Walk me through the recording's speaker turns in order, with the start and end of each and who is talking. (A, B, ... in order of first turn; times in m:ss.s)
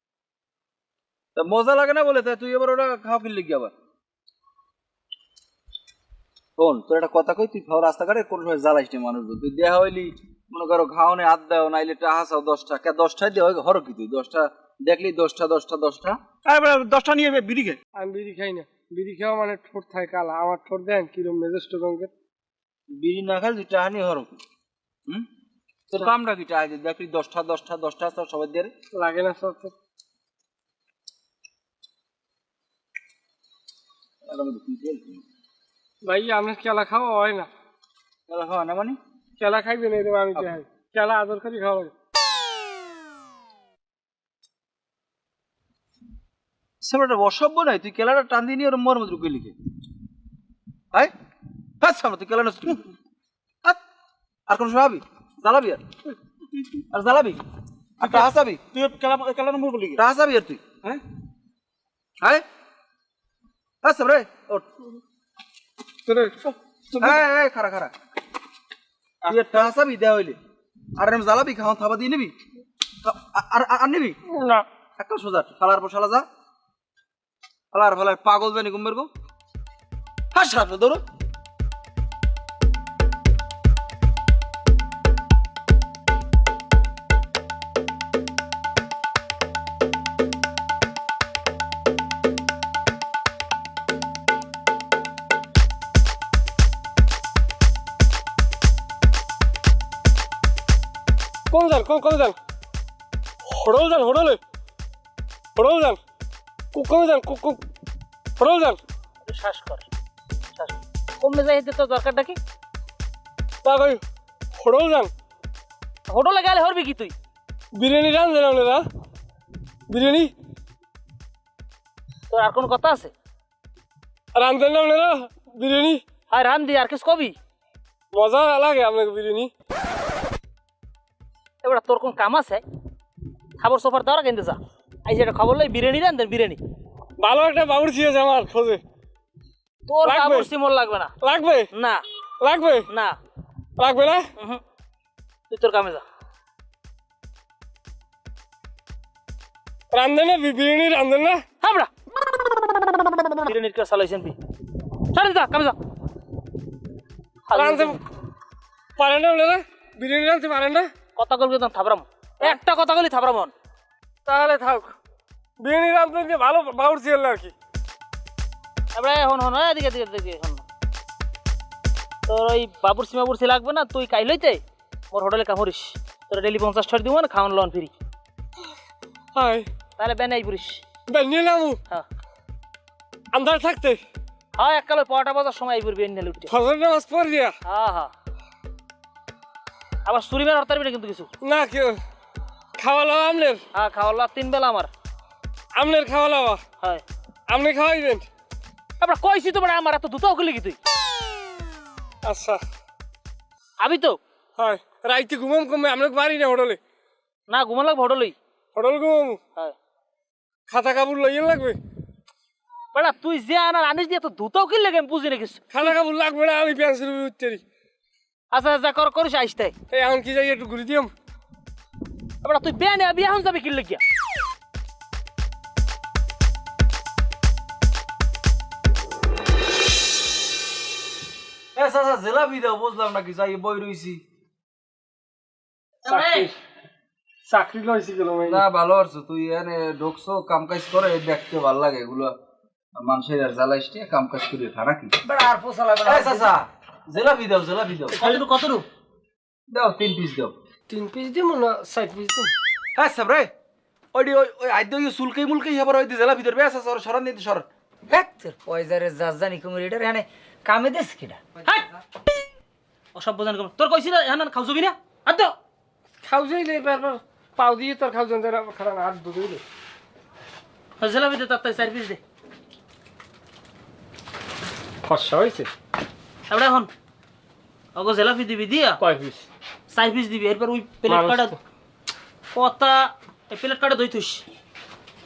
0:01.4-0:03.7 A
0:06.6-0:16.2 A
0:16.4-0:17.8 B
0:17.9-0:22.1 C
0:22.9-0:24.4 A
0:25.9-0:28.7 A
0:28.9-0:29.7 C
0:34.2-0:35.2 A
0:36.0-0:37.5 C
0:38.3-0:39.0 A
0:39.4-0:41.9 C
0:46.8-0:49.6 A
0:51.8-0:52.9 A
0:54.5-0:55.8 A
0:56.9-0:57.4 A
0:58.0-0:58.6 A
0:58.0-1:00.0 B
1:00.0-1:01.0 A
1:02.2-1:02.4 A
1:03.8-1:04.7 A
1:06.1-1:07.1 B
1:07.0-1:07.9 A
1:09.2-1:09.7 B
1:09.3-1:10.4 A
1:11.0-1:12.3 A
1:13.0-1:14.2 A
1:14.3-1:14.6 C
1:15.0-1:16.3 A
1:17.7-1:19.1 A
1:20.3-1:21.0 A
1:41.5-1:42.4 C
1:43.5-1:44.4 C
1:45.6-1:46.0 C
1:46.7-1:47.6 C
1:48.4-1:48.8 C
1:49.2-1:49.8 D
1:50.6-1:52.4 D
1:53.6-1:54.0 C
1:54.6-1:55.1 C
1:56.1-1:57.1 D
1:57.8-1:58.8 C
1:59.9-2:00.3 C
2:02.3-2:03.1 D
2:04.3-2:06.0 C
2:06.3-2:07.4 D
2:08.1-2:09.5 C
2:11.6-2:12.6 D
2:13.6-2:16.6 D
2:17.2-2:18.8 C
2:19.9-2:21.1 D
2:20.0-2:20.5 C
2:21.2-2:21.7 C
2:21.7-2:22.0 D
2:22.4-2:22.9 C
2:22.9-2:23.2 D
2:23.8-2:24.3 C
2:25.5-2:26.0 D
2:29.9-2:31.4 C
2:31.6-2:31.9 D
2:33.4-2:34.4 D
2:35.1-2:35.8 D
2:37.5-2:38.0 D
2:37.6-2:38.0 C
2:39.0-2:40.9 C
2:41.2-2:43.5 D
2:44.3-2:44.9 C
2:45.6-2:47.5 C
2:48.9-2:50.6 D
2:52.3-2:57.9 D
2:59.4-2:59.7 C
3:00.0-3:00.8 D
3:01.1-3:01.8 C
3:03.3-3:04.0 C
3:04.6-3:06.5 D
3:06.5-3:07.5 C
3:07.7-3:08.1 D
3:10.1-3:11.3 D
3:11.4-3:12.0 C
3:12.8-3:13.6 C
3:13.7-3:14.9 D
3:15.8-3:16.6 C
3:17.5-3:18.3 C
3:19.0-3:20.8 D
3:22.3-3:22.6 C
3:23.8-3:24.2 D
3:24.6-3:26.8 C
3:27.5-3:28.4 D
3:28.8-3:29.4 C
3:30.7-3:31.8 C
3:32.9-3:35.7 D
3:35.7-3:37.6 C
3:38.5-3:39.8 D
3:39.9-3:41.1 C
3:42.4-3:44.0 D
3:51.8-3:54.2 A
3:56.0-3:56.5 D
3:56.1-3:56.6 C
3:57.5-3:58.6 C
3:58.4-4:02.3 A
4:03.0-4:05.1 A
4:05.2-4:06.5 E
4:06.0-4:08.2 A
4:08.2-4:08.8 D
4:09.7-4:10.6 A
4:10.9-4:12.5 C
4:13.0-4:13.5 A
4:14.1-4:17.7 A
4:18.1-4:21.4 E
4:23.2-4:25.6 D
4:26.2-4:29.6 C
4:31.0-4:32.2 D
4:35.1-4:35.7 C
4:36.5-4:36.9 D
4:38.0-4:39.0 D
4:39.0-4:39.4 C
4:39.9-4:41.6 D
4:41.1-4:41.6 C
4:42.5-4:44.4 D